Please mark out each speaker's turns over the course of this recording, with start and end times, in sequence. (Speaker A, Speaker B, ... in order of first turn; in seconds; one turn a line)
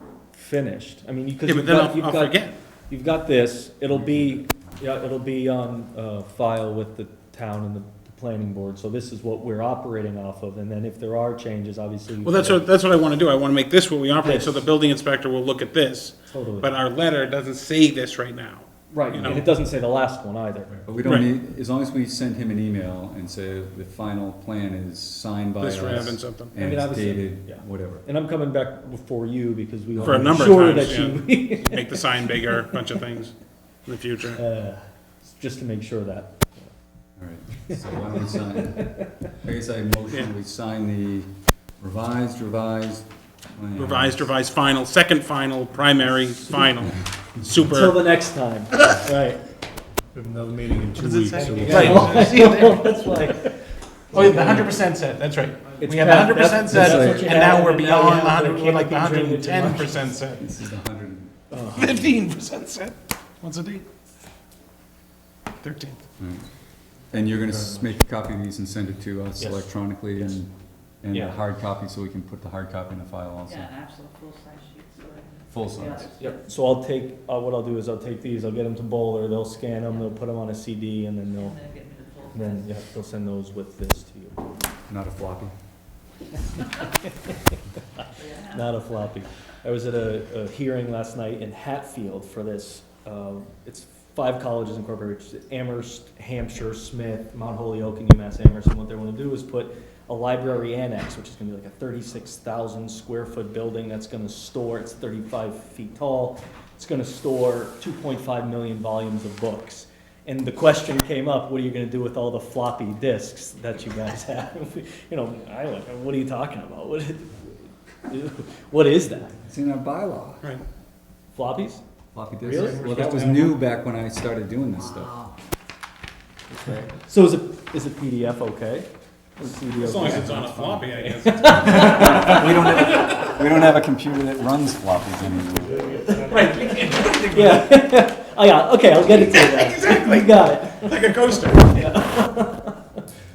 Speaker A: 0.3-12.7
Speaker B: 1.4-2.5
Speaker B: 12.2-19.5
Speaker A: 14.2-14.6
Speaker A: 16.3-16.8
Speaker A: 18.9-20.8
Speaker C: 20.9-28.1
Speaker B: 25.6-26.5
Speaker A: 26.0-32.5
Speaker C: 30.0-30.3
Speaker B: 30.0-33.3
Speaker B: 33.9-34.4
Speaker A: 34.3-36.7
Speaker C: 37.2-44.2
Speaker A: 37.7-39.1
Speaker B: 43.8-48.0
Speaker A: 47.7-49.4
Speaker D: 50.1-52.5
Speaker B: 51.0-53.1
Speaker A: 51.6-54.8
Speaker B: 54.1-60.5
Speaker A: 55.8-60.2
Speaker C: 56.7-57.4
Speaker C: 60.4-61.8
Speaker A: 61.5-62.1
Speaker B: 61.8-63.9
Speaker B: 65.6-66.0
Speaker C: 66.2-66.5
Speaker C: 67.1-70.5
Speaker A: 67.5-67.9
Speaker A: 69.4-69.7
Speaker C: 71.0-73.7
Speaker A: 71.1-71.4
Speaker E: 73.5-76.3
Speaker C: 75.5-76.1
Speaker A: 76.2-81.6
Speaker E: 81.4-82.7
Speaker A: 82.3-84.5
Speaker C: 84.9-85.5
Speaker E: 88.2-88.7
Speaker A: 88.5-119.4
Speaker C: 119.5-120.5
Speaker A: 121.3-121.8
Speaker C: 122.1-125.3
Speaker A: 122.4-122.9
Speaker B: 122.5-123.6
Speaker A: 126.7-133.3
Speaker B: 129.7-132.1
Speaker C: 131.6-136.0
Speaker A: 135.9-142.8
Speaker B: 136.0-137.8
Speaker B: 139.1-141.8